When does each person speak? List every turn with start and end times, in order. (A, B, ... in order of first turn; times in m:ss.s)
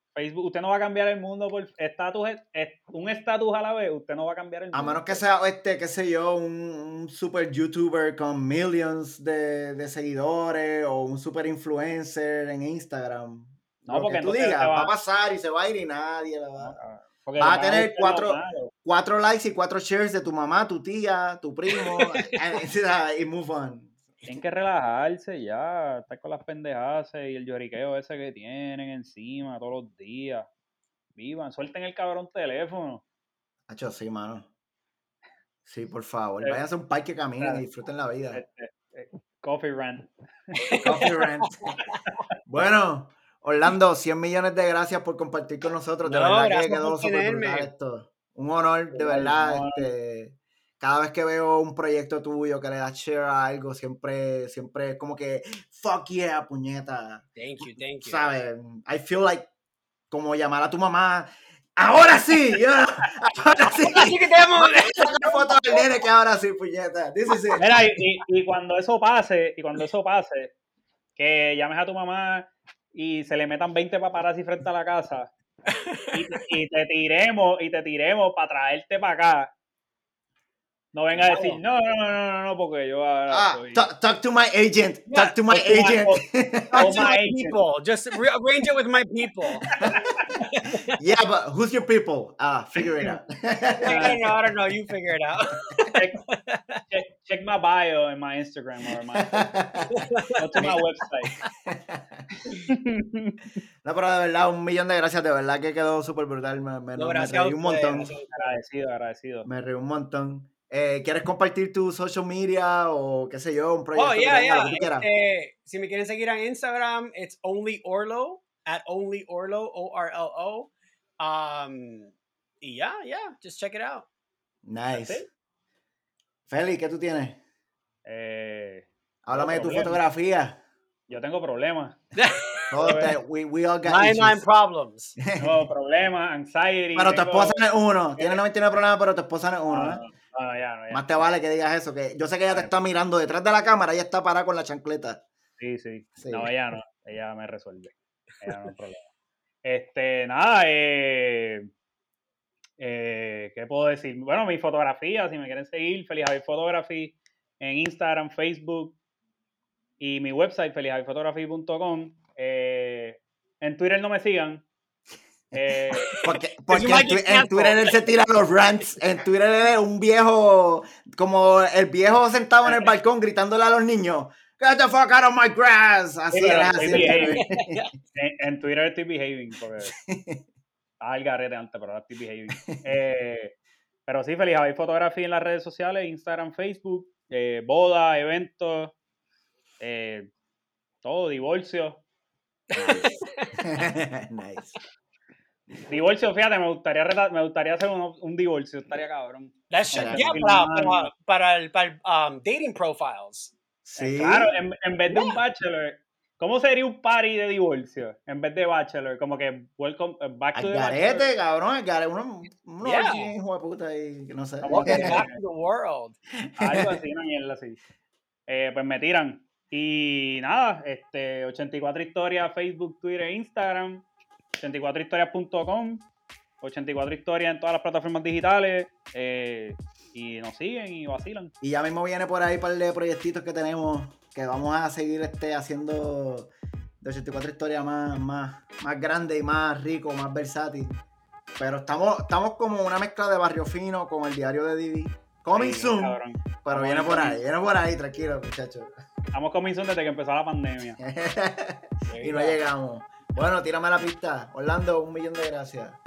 0:00.1-0:05.2 A
0:04.7-0:16.8 B
0:13.9-0:14.9 A
0:16.6-0:18.7 A
0:17.4-0:23.9 B
0:21.8-0:22.4 C
0:24.2-0:30.5 A
0:31.2-0:33.0 A
0:33.7-0:34.5 B
0:35.6-0:38.4 B
0:38.3-0:40.8 A
0:40.6-0:42.0 C
0:40.8-0:41.8 B
0:42.4-0:57.3 B
0:46.0-0:47.7 C
0:48.9-0:49.9 A
0:57.4-0:58.2 C
0:58.0-0:59.5 B
1:00.1-1:07.6 B
1:03.9-1:05.9 C
1:07.6-1:10.5 A
1:11.2-1:15.3 A
1:15.7-1:16.4 C
1:16.1-1:19.5 A
1:20.9-1:23.9 A
1:21.2-1:21.6 C
1:23.3-1:27.0 B
1:25.1-1:25.4 C
1:25.5-1:26.2 A
1:26.7-1:29.7 C
1:26.8-1:27.6 A
1:29.7-1:30.4 A
1:30.3-1:31.0 C
1:31.0-1:34.2 B
1:33.8-1:36.8 C
1:33.8-1:34.2 A
1:35.9-1:36.2 A
1:36.9-1:39.6 A
1:39.2-1:39.9 B
1:39.9-1:40.8 C
1:40.4-1:41.4 A
1:41.6-1:42.3 B
1:42.7-1:43.4 A
1:43.8-1:48.1 B
1:47.0-1:48.6 C
1:48.3-1:49.5 A
1:49.4-1:55.1 B
1:53.9-2:04.1 C
2:04.6-2:05.2 B
2:04.9-2:05.2 A
2:06.5-2:07.4 B
2:08.0-2:10.0 A
2:09.2-2:10.6 B
2:11.1-2:12.0 A
2:12.1-2:13.0 C
2:12.7-2:14.4 B
2:12.8-2:13.2 A
2:13.8-2:15.2 C
2:15.2-2:15.7 B
2:15.4-2:17.6 A
2:16.9-2:20.0 B
2:18.2-2:18.4 A
2:19.7-2:21.0 A
2:20.9-2:25.2 B
2:25.6-2:29.1 A
2:26.2-2:26.5 B
2:28.4-2:28.7 C
2:29.6-2:31.7 A
2:32.8-2:39.0 A
2:40.0-2:44.6 A
2:45.5-2:46.2 A
2:46.0-2:48.0 C
2:46.2-2:57.8 B
2:56.3-2:57.5 A
2:56.7-2:57.9 C
2:58.1-2:59.9 A
2:59.8-3:00.4 B
3:01.0-3:03.5 A
3:02.6-3:02.8 B
3:04.1-3:09.0 A
3:09.8-3:10.3 A
3:11.0-3:12.0 A
3:12.7-3:13.6 C
3:12.8-3:14.8 B
3:15.9-3:21.1 A
3:19.7-3:23.5 C
3:19.9-3:20.3 B
3:23.8-3:24.5 B
3:24.0-3:31.3 A
3:25.1-3:25.4 C
3:30.5-3:35.2 B
3:32.8-3:33.3 C
3:34.6-3:35.4 A
3:34.7-3:36.2 C
3:36.4-3:36.9 B
3:36.6-3:37.8 A
3:38.5-3:44.0 A
3:44.6-3:46.0 A
3:46.6-3:51.5 A
3:51.6-4:01.0 B
4:01.6-4:08.9 B
4:05.5-4:07.4 A
4:09.3-4:11.0 A
4:11.0-4:16.0 B
4:12.1-4:12.6 C